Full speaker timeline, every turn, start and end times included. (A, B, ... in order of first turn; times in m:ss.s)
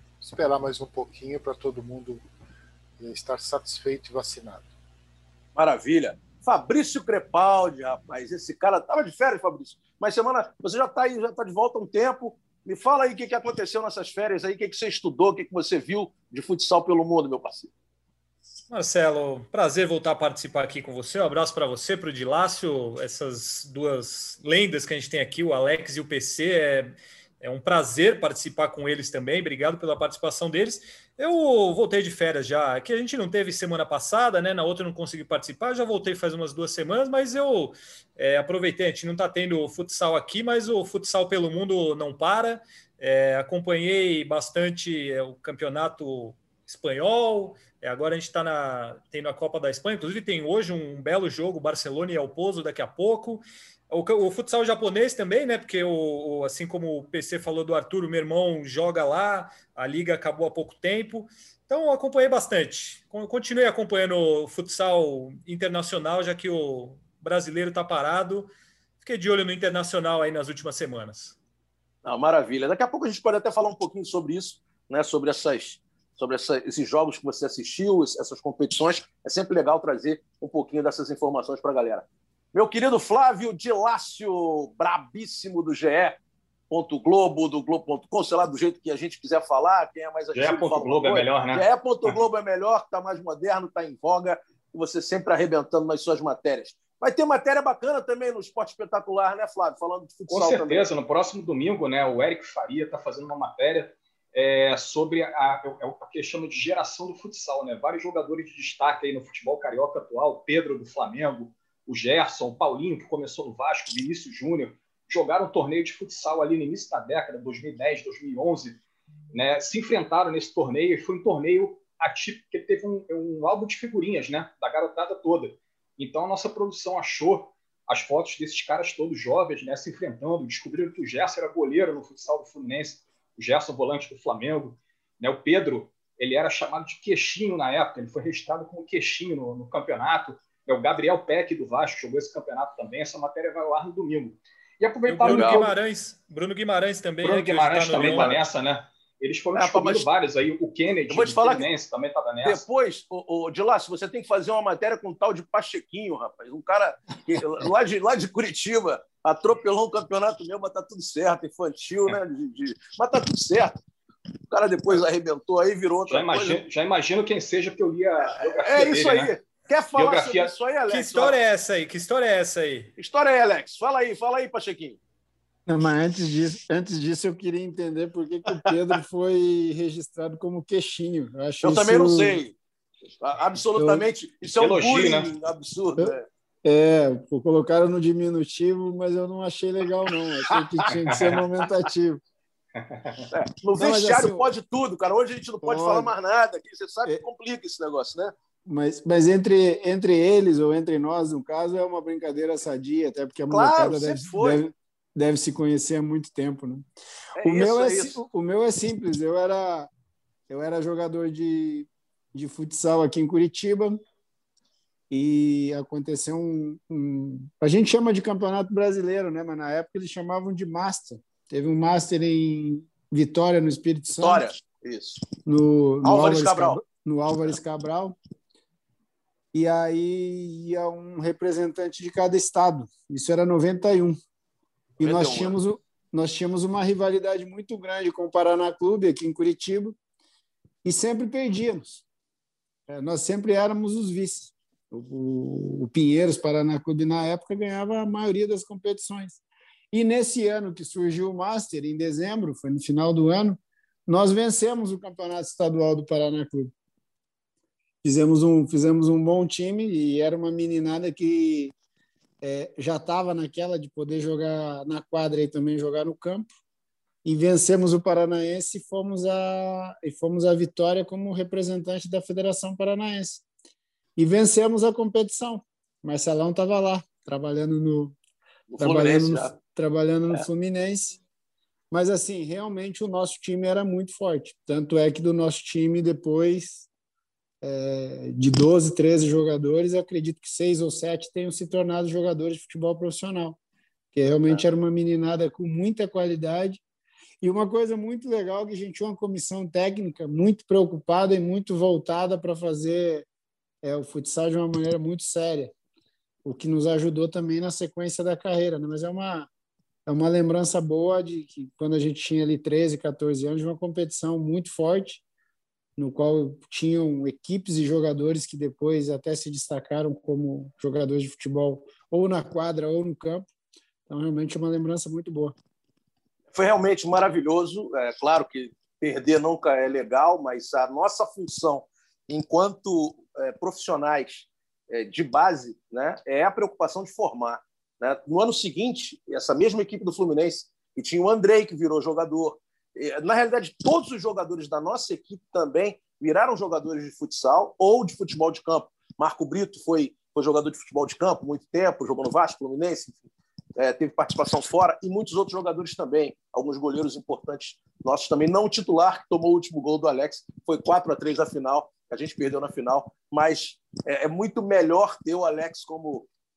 0:00.2-0:02.2 A
0:03.0-0:04.7 A
0:05.6-0:17.7 B
0:18.7-1:08.5 C
1:09.0-1:11.4 C
1:12.0-1:26.2 B
1:26.7-1:40.9 B
1:30.3-1:32.1 D
1:40.3-1:58.8 D
1:59.3-2:25.7 D
2:25.0-2:28.4 C
2:25.3-2:25.6 B
2:27.2-2:32.6 D
2:29.5-2:30.1 B
2:31.1-2:31.7 B
2:32.4-2:43.7 B
2:44.5-2:46.6 B
2:46.1-2:49.3 D
2:48.3-2:51.4 B
2:49.9-2:50.5 D
2:50.9-2:52.9 C
2:53.0-2:55.0 B
2:55.7-3:02.4 E
3:01.6-3:02.5 B
3:03.2-3:06.2 B
3:03.8-3:04.0 E
3:04.6-3:05.3 D
3:06.0-3:12.2 E
3:10.9-3:11.4 D
3:12.8-3:13.3 D
3:13.3-3:18.3 B
3:13.8-3:14.5 E
3:15.6-3:16.1 E
3:18.6-3:26.8 E
3:23.5-3:24.6 B
3:27.4-3:28.2 B
3:27.4-3:29.9 E
3:30.5-3:34.0 E
3:35.1-3:44.4 E
3:44.1-3:45.2 B
3:45.4-3:48.2 E
3:46.0-3:46.8 B
3:49.5-3:54.2 E
3:55.0-3:55.5 B
3:55.0-4:00.0 E
4:00.8-4:02.0 E
4:02.9-4:16.7 E
4:18.0-4:21.7 E
4:22.4-4:26.5 E
4:27.2-4:33.4 E
4:34.2-4:38.2 E
4:38.7-4:39.5 B
4:38.8-4:41.2 E
4:41.9-4:46.9 E
4:47.6-4:53.6 E
4:54.1-4:56.8 E
4:57.4-5:03.2 E
5:03.8-5:05.7 E
5:06.4-5:09.5 E
5:10.0-5:15.2 E
5:16.0-5:23.4 E
5:24.1-5:25.5 E
5:26.5-6:06.3 B